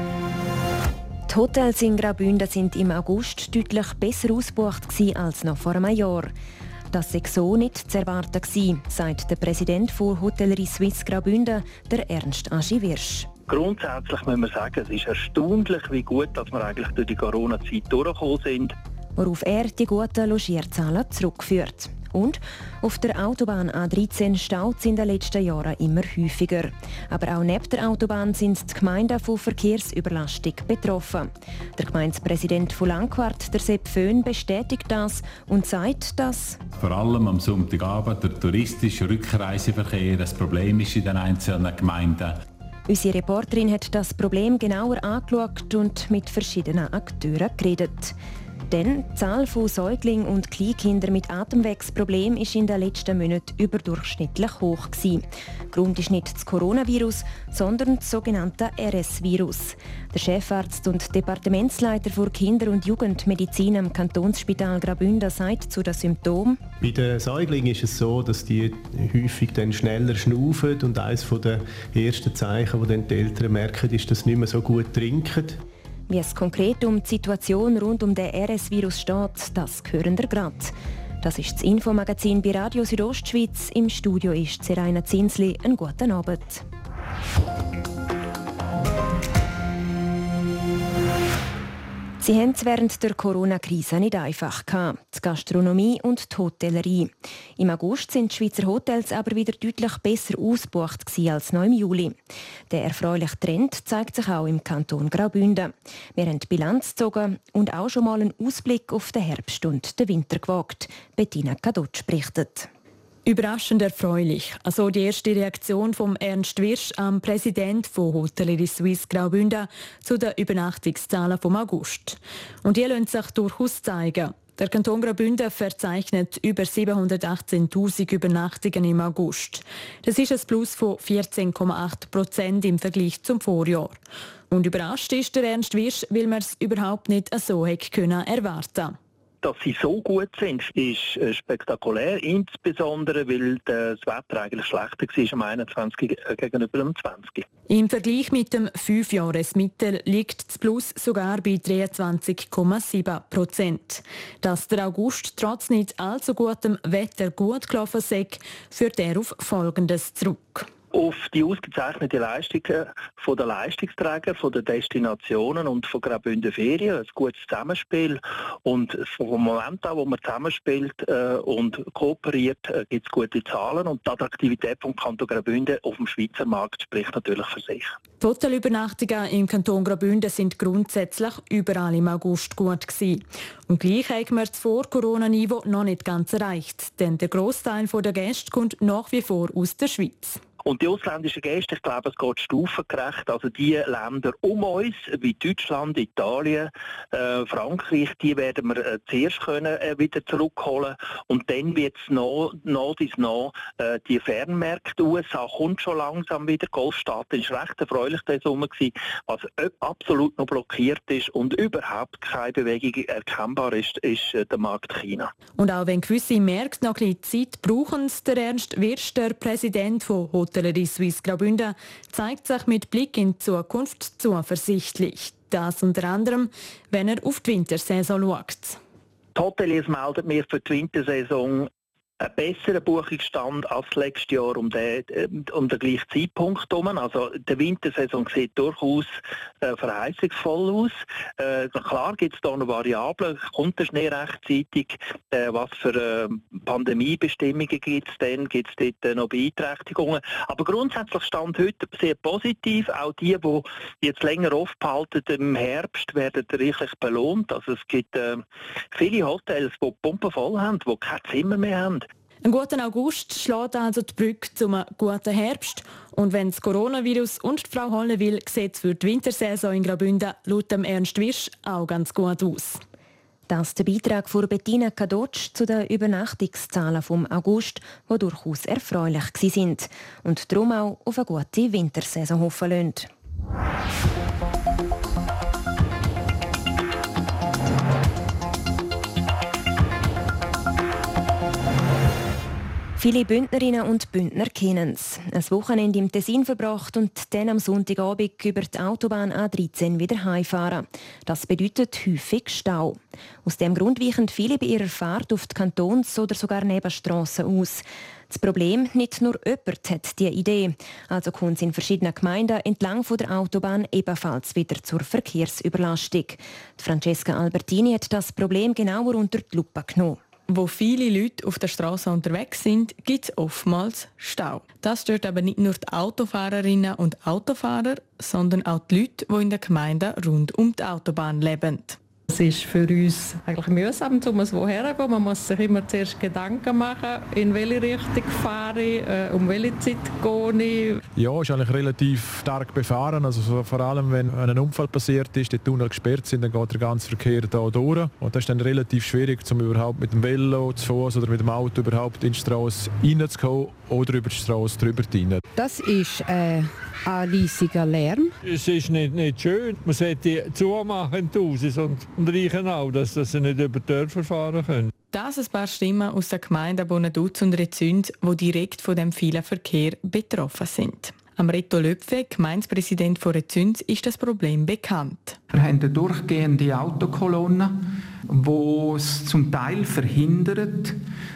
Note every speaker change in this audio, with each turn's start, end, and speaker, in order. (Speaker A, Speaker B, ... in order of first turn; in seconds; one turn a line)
Speaker A: 1.3-6.3
Speaker A: 6.9-13.3
Speaker B: 13.5-18.7
Speaker A: 19.2-36.6
Speaker C: 36.8-42.4
Speaker A: 42.9-48.2
Speaker A: 48.7-66.6
Speaker D: 66.8-75.6
Speaker A: 76.1-86.6
Speaker A: 92.2-102.2
Speaker A: 102.7-112.7
Speaker E: 113.3-134.0
Speaker E: 134.5-139.0
Speaker B: 139.4-147.4
Speaker E: 147.7-160.7
Speaker B: 160.9-177.9
Speaker E: 178.2-190.4
Speaker B: 190.6-215.3
Speaker E: 215.6-228.8
Speaker B: 229.4-258.4
Speaker B: 258.9-262.1
Speaker E: 262.4-272.8
Speaker A: 273.5-283.1
Speaker A: 293.0-320.2
Speaker F: 320.5-332.0
Speaker G: 332.3-340.8
Speaker H: 341.2-355.4
Speaker I: 355.6-358.4
Speaker J: 358.4-364.9
Speaker F: 365.1-375.4
Speaker K: 375.5-381.0